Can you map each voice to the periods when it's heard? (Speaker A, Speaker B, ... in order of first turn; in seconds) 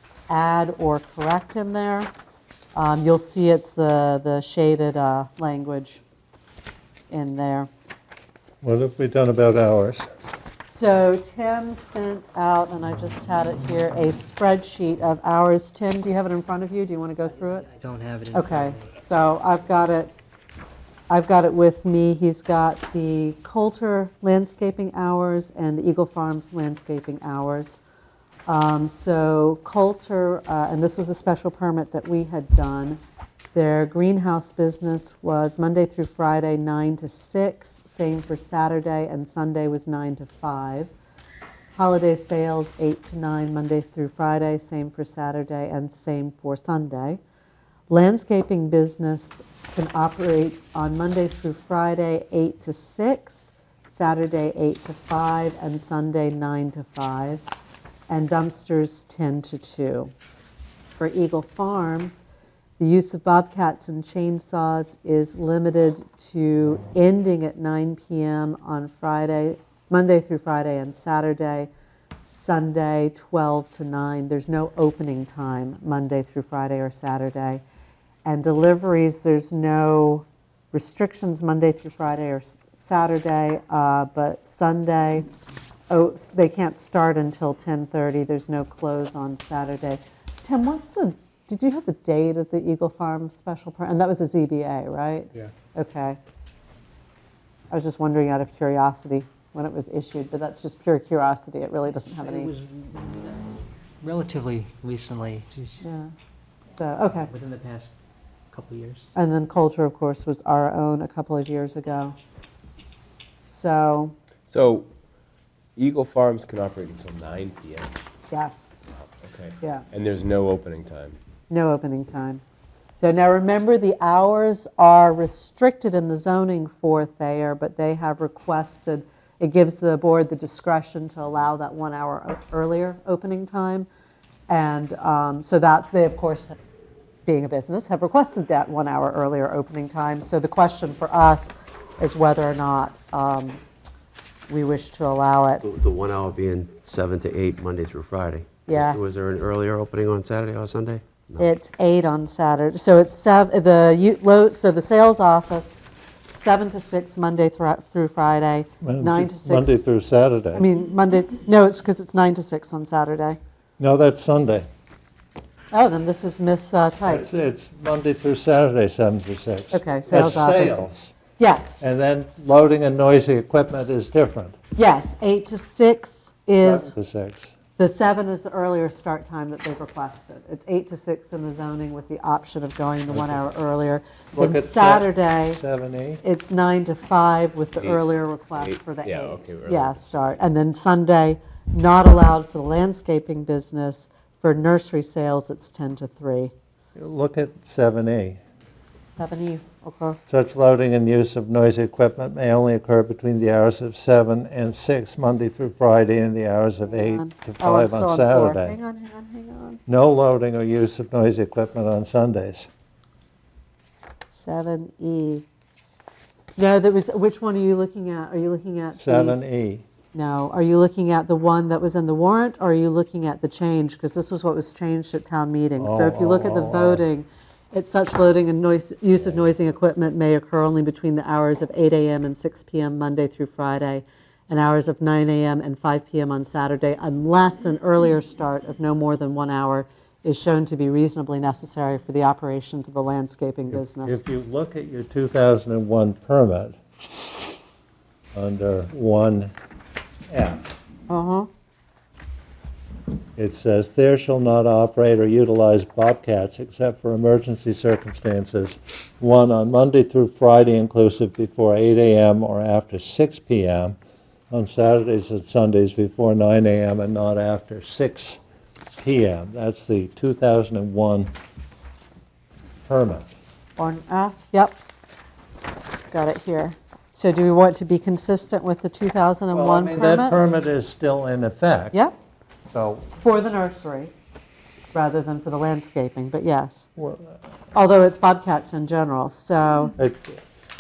Speaker A: 0.3-2.1, 2.8-6.0, 7.1-7.7, 10.7-17.7, 18.3-20.1, 21.1-27.8, 28.5-33.0, 33.5-40.9, 41.7-47.2, 47.9-57.4, 58.1-60.1, 61.0-62.2, 62.8-71.7, 72.2-77.6, 78.2-85.3, 85.9-96.2, 97.7-102.5, 105.8-106.1, 106.7-107.3, 109.2-112.2, 113.5-114.1, 118.3-118.8, 121.5-122.4, 123.0-133.9, 134.5-136.6, 137.3-143.6, 144.5-145.6, 148.7-149.0, 151.4-155.8, 156.3-159.8, 160.5-163.4, 165.7-167.3, 169.7-171.8, 174.8-176.9, 177.8-185.6, 186.2-196.5, 199.2-200.2, 206.9-209.8, 214.3-215.4, 216.6-219.4, 220.1-244.2, 251.1-251.5, 273.8-274.8, 276.1-280.4, 283.2-284.1, 284.9-286.9, 287.7-289.9
Speaker B: 8.6-10.1, 158.8-160.7, 163.8-164.7, 167.1-171.2, 171.8-174.6, 176.6-177.5, 183.1-183.4, 184.3-186.2, 197.0-198.4, 200.3-208.8, 209.9-212.7, 219.0-219.9, 225.8-227.0, 243.7-246.9, 248.3-249.5, 250.3-250.7, 253.4-264.0, 264.5-268.4, 268.9-271.3, 272.9-273.3, 279.5-282.0, 282.7-283.1, 287.0-287.4, 290.0-290.4
Speaker C: 17.6-18.9, 102.0-105.8, 107.2-107.9, 108.5-109.1
Speaker D: 114.5-114.9, 115.8-117.9, 119.2-121.2, 187.8-188.0, 188.6-190.0
Speaker E: 145.6-151.5